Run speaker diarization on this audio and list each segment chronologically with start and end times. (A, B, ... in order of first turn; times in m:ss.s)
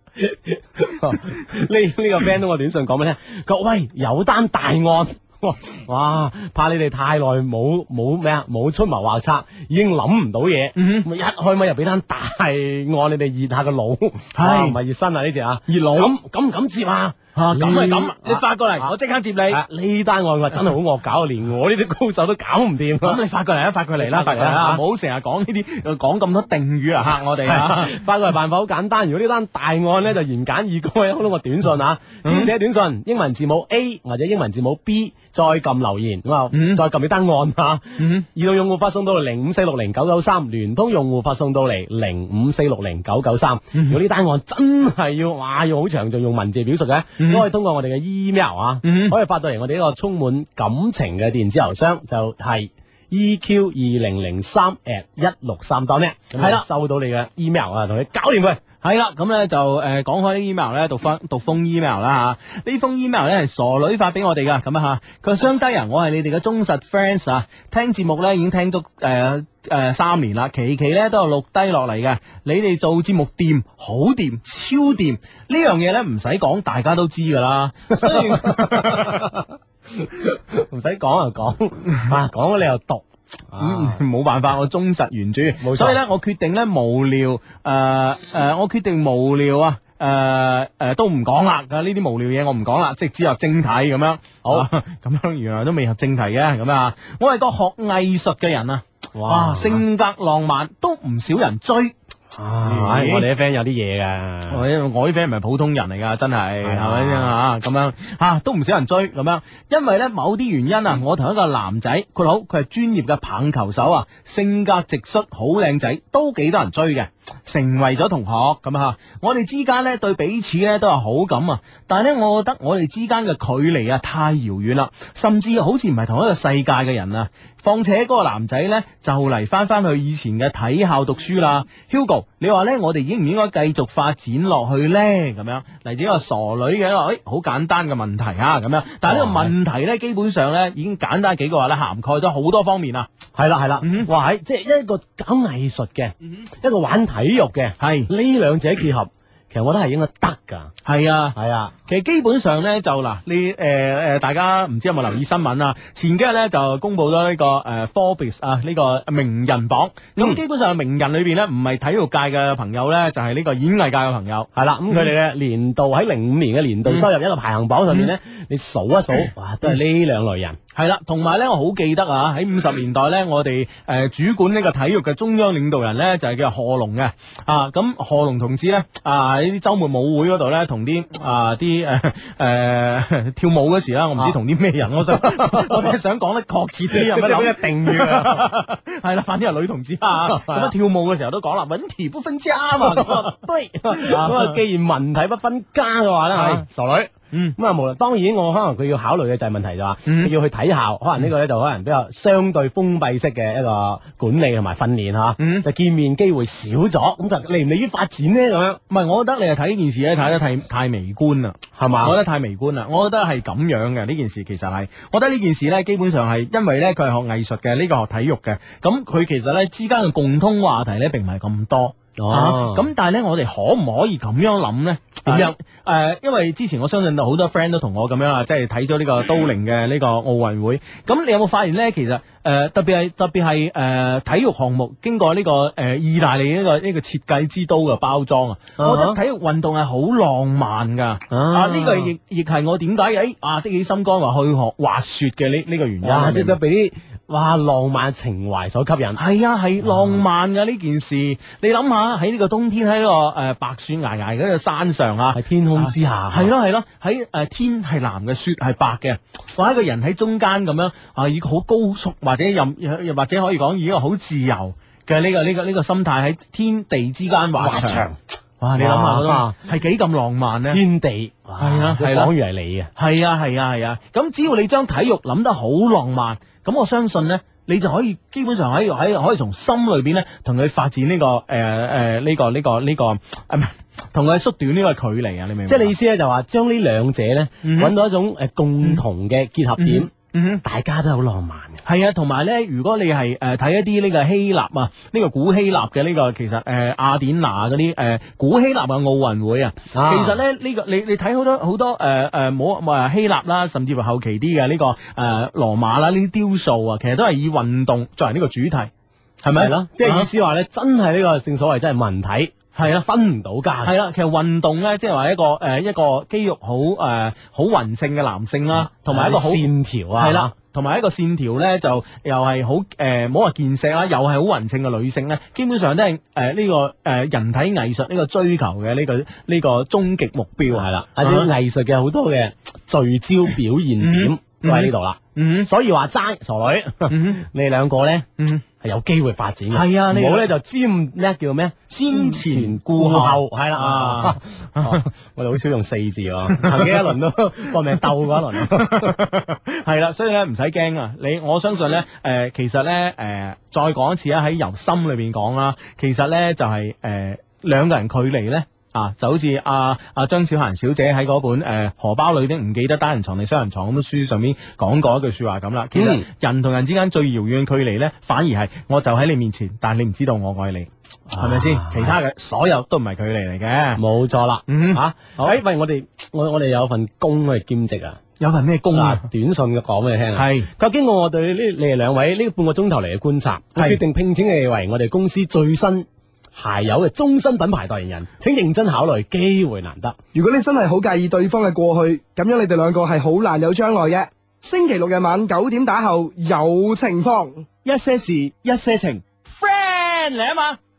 0:00.2-0:18.9 A
0:10.8-0:11.0 B
0:14.4-0:14.8 B
0:15.7-0:16.1 B
0:17.3-0:19.6 B
0:19.5-0:23.2 A
0:23.0-0:27.9 B
0:24.0-0:24.8 A
0:27.4-0:58.6 A
0:32.2-0:32.5 B
0:36.5-0:36.8 B
0:38.0-0:38.2 B
0:47.2-0:47.4 B
0:48.8-0:49.1 B
0:56.4-0:56.6 B
0:58.8-1:19.3 B
1:17.9-1:19.4 A
1:20.0-1:24.0 A
1:23.6-1:41.9 B
1:25.6-1:26.0 A
1:39.2-1:39.8 A
1:42.3-1:44.6 A
1:42.6-1:43.3 B
1:44.5-2:23.1 B
1:46.6-1:47.3 A
2:19.0-2:19.5 A
2:23.3-2:30.7 A
2:23.8-2:24.1 B
2:27.8-2:28.1 B
2:30.8-2:45.1 B
2:31.3-2:31.7 A
2:44.5-2:50.6 A
2:50.7-3:13.3 B
3:05.1-3:05.9 A
3:06.9-3:08.4 A
3:10.2-3:10.7 A
3:12.8-3:28.8 A
3:13.9-3:14.6 B
3:16.3-3:16.6 B
3:25.4-3:25.6 B
3:28.9-4:06.6 B
3:31.7-3:32.2 A
3:42.2-3:42.9 A
3:45.2-3:45.5 A
3:58.8-3:59.2 A
4:01.3-4:02.1 A
4:06.0-4:09.2 A
4:09.2-4:28.0 B
4:15.3-4:16.5 A
4:27.6-4:28.2 A
4:28.6-4:30.8 B
4:28.8-4:29.5 A
4:30.7-4:32.9 A
4:31.6-4:32.3 B
4:33.0-4:45.9 B
4:45.7-4:50.1 A
4:47.6-4:47.9 B
4:49.8-4:50.6 B
4:50.6-4:51.8 A
4:51.8-5:08.9 B
4:59.9-5:00.4 A
5:09.4-5:10.3 B
5:09.5-5:13.9 A
5:12.8-5:13.0 B
5:13.8-5:31.5 B
5:18.7-5:20.5 A
5:30.7-5:38.3 A
5:34.0-5:35.7 B
5:37.1-5:37.4 B
5:38.4-5:38.6 B
5:38.8-5:49.1 A
5:39.7-5:40.5 B
5:41.9-5:45.0 B
5:46.6-5:47.1 B
5:48.5-6:14.0 B
6:05.9-6:06.2 A
6:11.3-6:12.1 A
6:14.0-6:18.2 A
6:14.7-6:15.0 B
6:18.4-6:19.2 B
6:18.9-6:30.2 A
6:20.4-6:20.7 B
6:30.3-6:37.6 C
6:37.8-6:40.8 B